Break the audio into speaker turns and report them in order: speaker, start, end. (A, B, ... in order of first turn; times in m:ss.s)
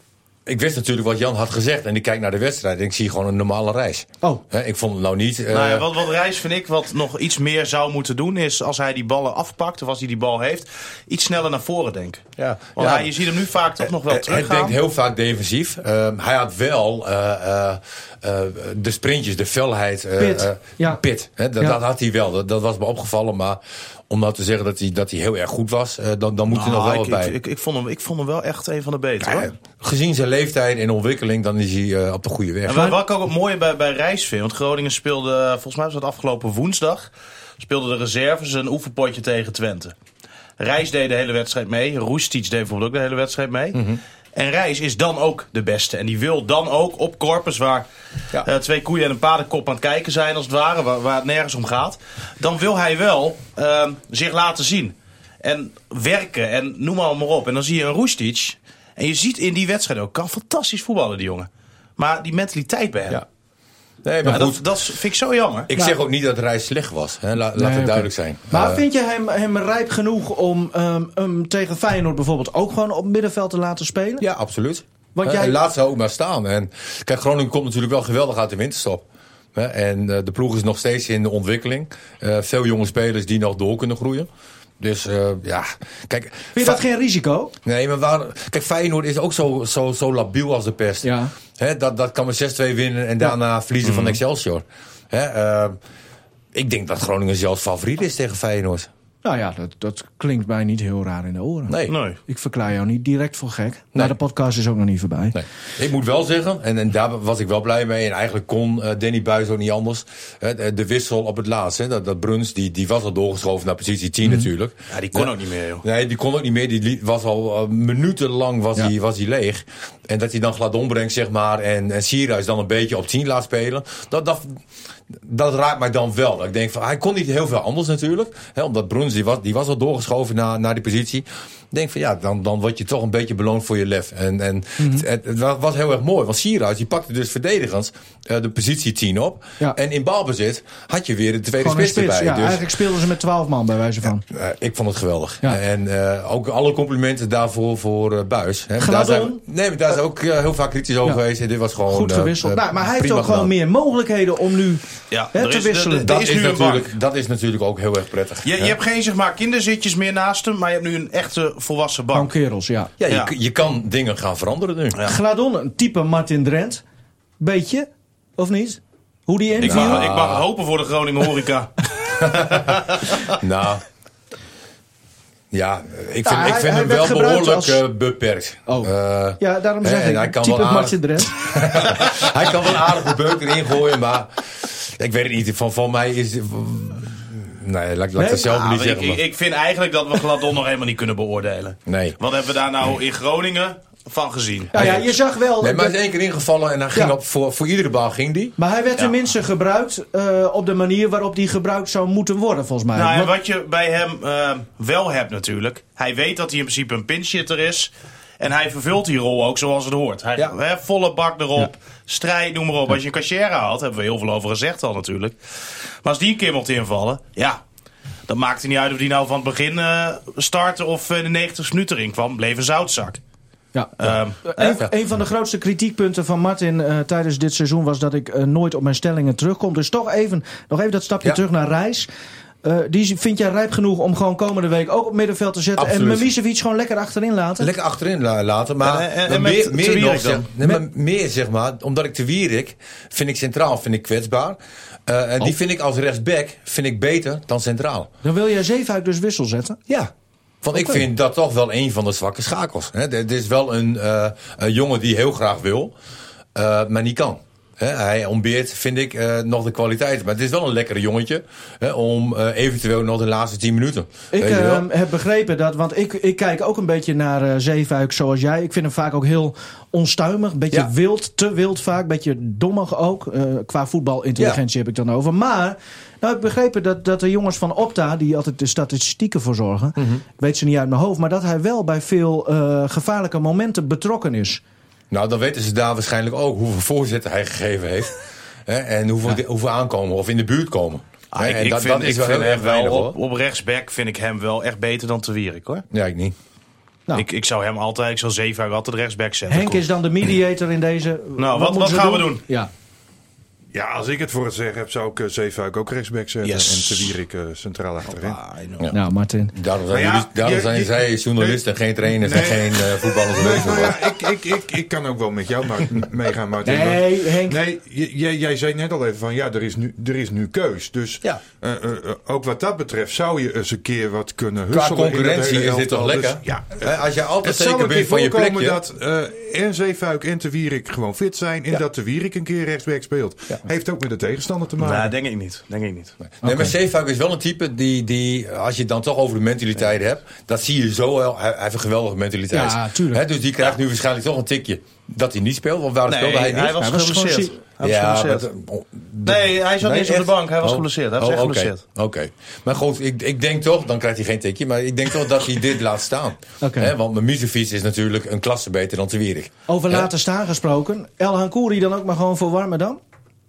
0:00.4-0:05.9 A
0:05.5-0:12.2 B
0:12.4-0:13.1 A
0:12.8-0:14.7 B
0:14.0-0:27.3 A
0:20.2-0:21.0 C
0:26.5-0:29.5 B
0:29.2-0:32.9 A
0:32.7-0:39.9 B
0:40.6-0:43.8 B
0:43.7-0:44.0 A
0:44.3-0:47.8 B
0:48.4-1:03.2 B
1:04.0-1:04.7 A
1:04.2-1:05.7 B
1:05.7-1:08.8 A
1:07.6-1:14.2 C
1:14.2-1:19.0 A
1:15.1-1:15.6 C
1:19.5-1:24.3 A
1:24.8-1:26.8 A
1:26.5-1:27.5 C
1:27.6-1:35.8 A
1:31.0-1:31.3 C
1:33.8-1:34.2 B
1:36.5-1:38.9 A
1:39.2-1:45.4 C
1:41.7-1:42.0 A
1:41.9-1:42.2 B
1:45.3-1:55.3 A
1:54.9-1:55.8 B
1:55.8-2:04.6 A
2:05.1-2:22.7 A
2:14.8-2:15.0 C
2:21.6-2:24.2 C
2:24.2-2:33.5 A
2:28.8-2:29.4 C
2:31.9-2:36.1 C
2:35.1-2:36.9 B
2:36.0-2:38.8 A
2:38.4-2:42.3 B
2:42.1-2:42.9 C
2:43.0-2:45.0 A
2:45.0-2:46.8 C
2:47.4-2:50.1 C
2:49.6-2:50.4 A
2:49.6-2:51.7 B
2:52.2-2:53.8 A
2:52.3-2:53.2 B
2:55.5-3:09.2 A
2:56.2-2:57.8 C
2:58.6-3:01.4 C
3:08.2-3:08.5 C
3:08.5-3:14.7 B
3:11.9-3:12.2 A
3:14.7-3:18.5 A
3:14.7-3:15.9 C
3:18.6-3:23.3 C
3:22.9-3:35.4 B
3:36.0-3:37.6 B
3:38.3-3:43.2 B
3:43.7-3:52.1 C
3:44.0-3:44.8 B
3:52.6-3:57.7 C
3:55.8-3:56.3 A
3:57.6-4:08.1 A
3:58.8-4:00.5 B
4:08.2-4:09.8 C
4:10.6-4:15.9 A
4:10.7-4:11.0 C
4:16.5-4:24.9 A
4:24.3-4:44.6 C
4:40.0-4:40.2 A
4:45.1-4:48.1 A
4:48.7-4:53.2 A
4:51.3-4:55.8 B
4:55.9-4:56.3 A
4:57.1-4:59.8 B
4:59.5-5:02.7 C
5:01.4-5:02.4 B
5:03.7-5:08.4 D
5:06.4-5:07.2 B
5:08.1-5:08.9 B
5:08.9-5:09.5 C
5:09.5-5:14.0 A
5:09.9-5:35.1 D
5:16.6-5:17.6 C
5:24.7-5:28.8 A
5:34.8-5:36.1 B
5:36.3-5:46.8 A
5:36.4-5:36.7 C
5:42.5-5:43.2 C
5:46.1-5:48.5 B
5:46.8-5:47.6 C
5:47.8-6:00.1 A
5:49.2-5:51.8 B
5:56.6-5:56.9 C
5:59.7-6:03.0 C